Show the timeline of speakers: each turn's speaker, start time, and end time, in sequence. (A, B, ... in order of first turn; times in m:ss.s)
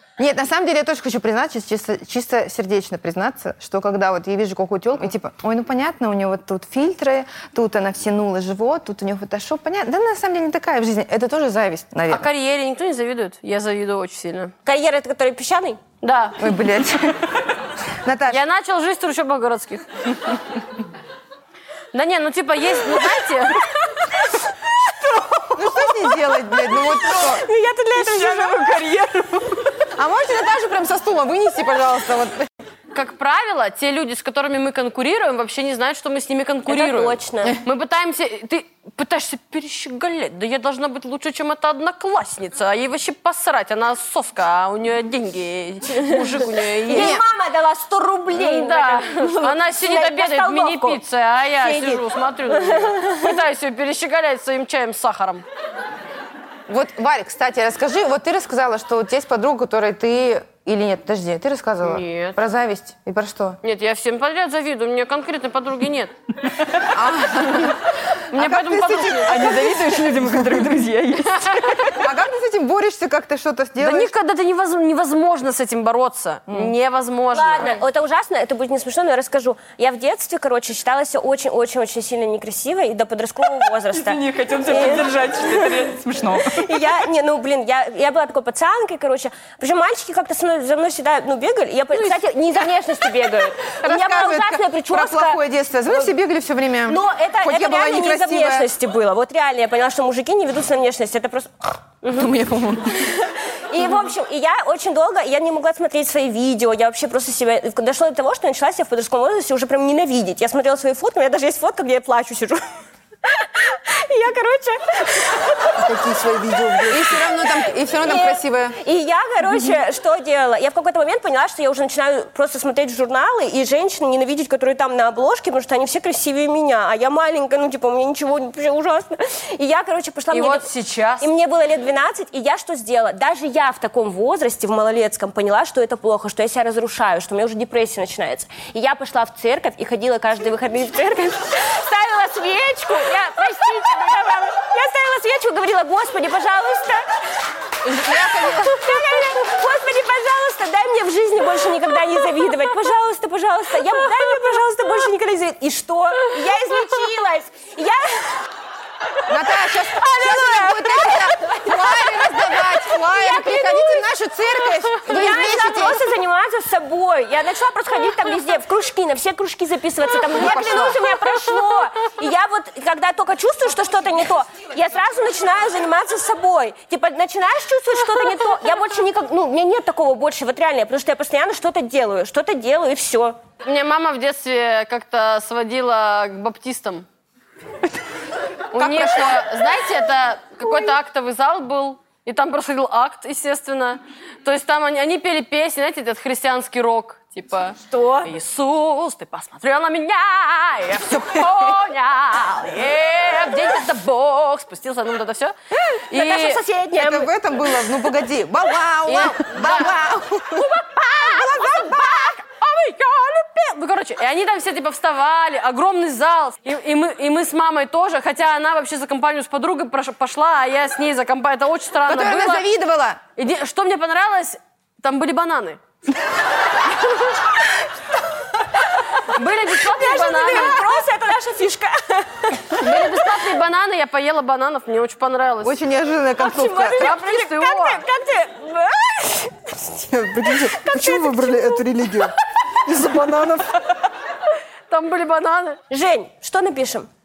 0:00.2-0:12.2 A
0:12.1-0:14.5 B
0:14.6-0:15.8 C
0:16.0-0:16.4 B
0:16.4-0:17.3 A
0:18.0-0:18.4 A
0:18.3-0:19.9 B
0:21.9-0:23.7 B
0:25.0-0:26.0 C
0:25.5-0:27.4 A
0:26.7-0:29.0 C
0:28.0-0:29.5 D
0:30.0-0:32.5 A
0:32.9-0:47.2 B
0:36.7-0:37.6 C
0:46.0-0:51.0 C
0:46.9-0:47.2 A
0:48.3-0:55.4 B
0:51.6-0:53.2 C
0:56.7-1:03.6 A
1:01.8-1:02.4 B
1:03.6-1:06.1 B
1:06.9-1:07.8 A
1:08.3-1:09.6 B
1:08.3-1:09.4 A
1:09.2-1:12.0 D
1:12.0-1:14.1 A
1:13.8-1:17.8 B
1:17.3-1:25.7 C
1:23.9-1:26.7 D
1:26.4-1:36.1 C
1:33.8-1:38.7 A
1:36.8-1:42.3 C
1:42.1-1:43.1 A
1:43.1-1:52.6 C
1:53.2-1:55.7 C
1:55.8-1:57.2 E
1:56.9-1:58.8 A
1:58.0-2:10.7 C
2:10.3-2:11.3 B
2:11.2-2:27.0 C
2:27.8-2:28.8 A
2:28.1-2:38.4 C
2:39.3-2:46.0 A
2:40.0-2:42.4 C
2:42.9-2:44.0 C
2:45.1-3:03.4 C
2:50.3-2:51.0 A
3:03.6-3:07.0 B
3:08.7-3:25.5 B
3:08.7-3:09.4 A
3:17.8-3:18.3 C
3:26.0-3:27.3 C
3:26.1-3:26.6 B
3:26.9-3:30.7 A
3:29.1-3:30.0 B
3:30.6-3:42.6 B
3:31.3-3:32.3 A
3:42.0-3:43.2 A
3:43.4-3:45.8 B
3:49.3-3:50.8 B
3:49.7-3:52.9 C
3:52.7-3:55.8 B
3:55.6-3:57.1 A
3:56.4-3:59.9 C
3:57.0-3:58.0 B
3:59.9-4:03.9 E
4:00.7-4:01.8 C
4:04.9-4:05.8 B
4:05.9-4:07.1 C